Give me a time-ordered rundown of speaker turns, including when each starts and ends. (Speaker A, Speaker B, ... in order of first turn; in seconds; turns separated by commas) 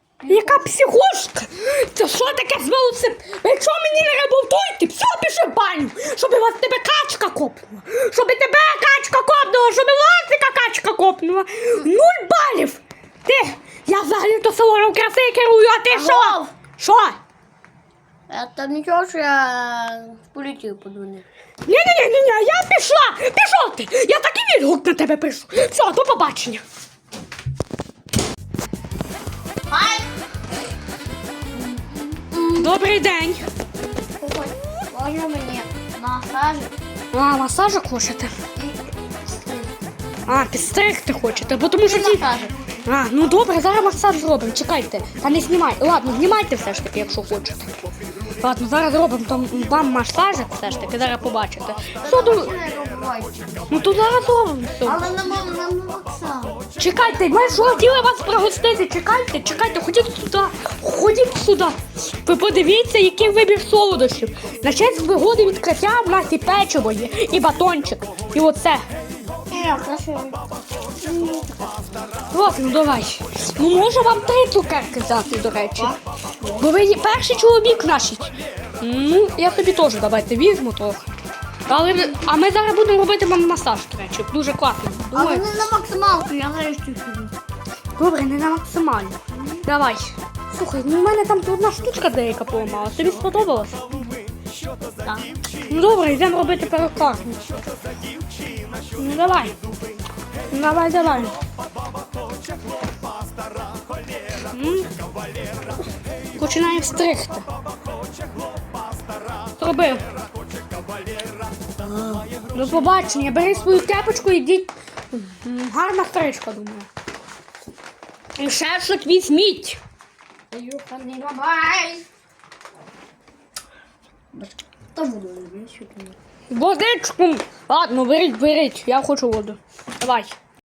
Speaker A: 0.2-0.7, Speaker B: 0.2-17.2, Speaker A: 15.9-16.5, Speaker A: 18.3-21.2, Speaker B: 21.6-26.6, Speaker A: 29.7-30.1, Speaker A: 31.5-32.7, Speaker B: 32.5-33.4, Speaker A: 34.2-36.7, Speaker B: 37.1-38.3, Speaker A: 38.5-39.7, Speaker B: 40.3-42.3, Speaker A: 41.8-42.5, Speaker B: 42.8-47.7, Speaker B: 48.4-52.5, Speaker A: 52.0-53.4, Speaker B: 53.7-55.0, Speaker A: 54.8-56.6, Speaker B: 56.8-68.8, Speaker A: 69.5-70.4, Speaker A: 71.0-71.7, Speaker B: 72.3-81.1, Speaker B: 81.7-85.6, Speaker A: 85.1-87.3, Speaker B: 88.0-93.8, Speaker A: 89.3-89.6, Speaker A: 95.0-95.3, Speaker B: 95.6-97.4, Speaker B: 99.0-99.5, Speaker B: 100.5-101.4, Speaker B: 104.5-104.9, Speaker B: 106.3-107.5, Speaker B: 109.6-110.0, Speaker A: 111.8-112.3, Speaker B: 112.5-116.9, Speaker B: 118.4-119.8, Speaker A: 120.5-122.0, Speaker A: 124.3-126.2, Speaker B: 126.5-130.3